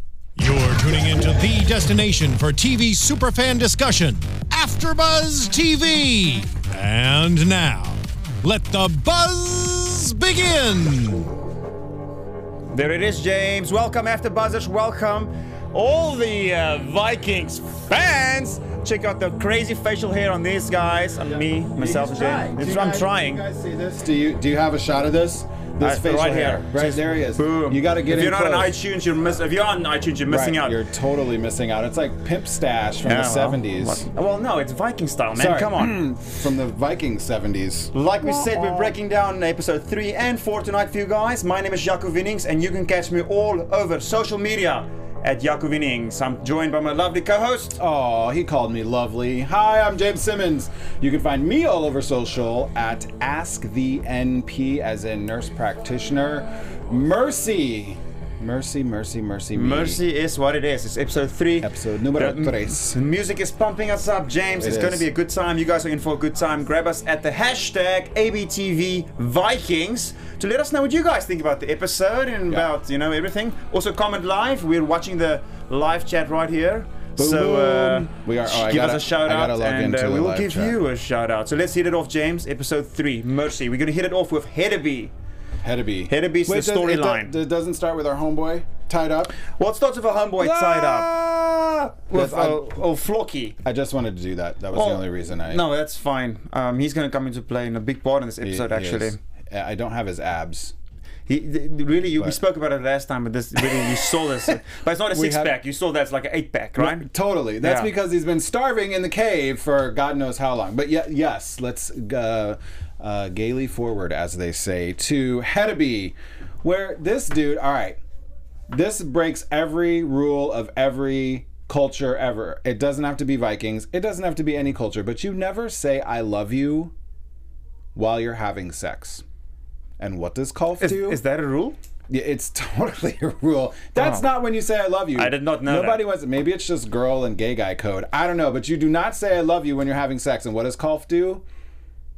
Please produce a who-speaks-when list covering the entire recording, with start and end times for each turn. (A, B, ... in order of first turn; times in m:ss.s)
0:00.4-0:11.3 A
0:12.7-0:23.4 B
0:21.7-0:28.8 C
0:25.8-0:30.8 B
0:30.3-0:34.1 C
0:33.0-0:36.0 B
0:35.4-0:39.0 C
0:37.9-0:47.8 B
0:47.8-1:00.0 C
0:59.5-1:25.1 B
1:01.6-1:03.0 C
1:04.6-1:05.1 C
1:17.2-1:20.8 C
1:25.6-1:29.4 C
1:26.1-1:27.3 B
1:29.6-1:33.6 B
1:30.4-1:31.4 C
1:32.1-1:32.7 C
1:33.6-1:35.6 C
1:34.7-1:39.2 B
1:38.4-1:40.7 C
1:41.3-1:47.1 B
1:43.6-1:43.9 C
1:45.1-1:45.6 C
1:46.8-1:58.0 C
1:47.6-1:47.9 B
1:58.7-2:06.9 C
2:08.0-2:09.2 C
2:10.0-2:11.2 C
2:10.8-2:11.8 B
2:12.1-2:21.4 C
2:14.0-2:14.3 B
2:15.2-2:16.0 B